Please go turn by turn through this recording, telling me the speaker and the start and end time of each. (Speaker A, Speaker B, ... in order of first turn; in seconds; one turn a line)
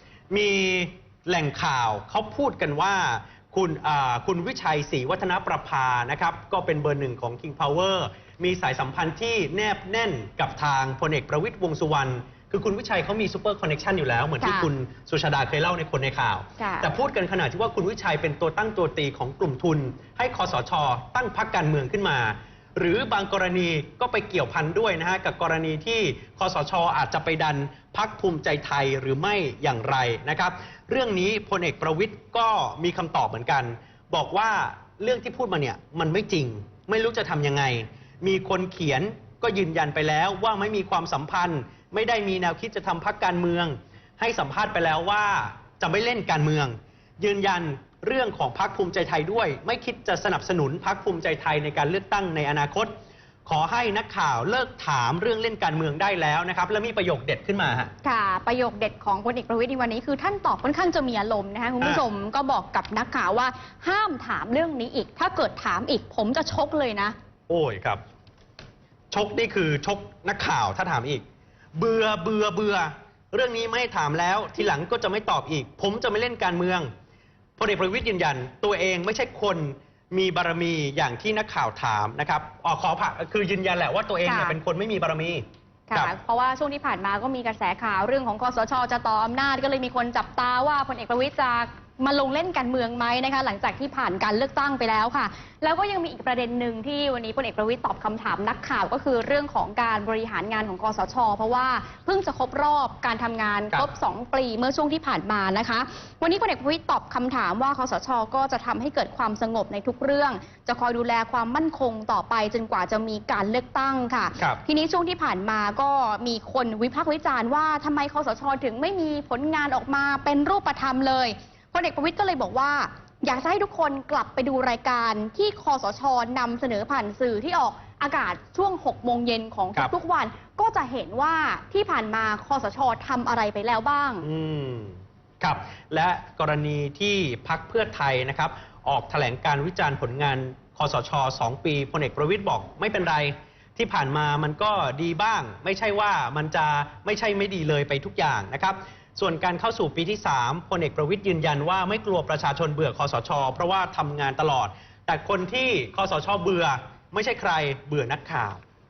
Speaker A: 0.3-52.9
Speaker B: 14.4-14.7
Speaker B: 16.6-16.9
Speaker A: 53.5-57.9
Speaker B: 58.0-67.2
Speaker A: 67.5-68.0
Speaker A: 69.1-71.2
Speaker A: 71.8-76.9
Speaker A: 77.6-86.1
Speaker B: 84.2-84.6
Speaker B: 85.9-134.3
Speaker A: 134.2-158.6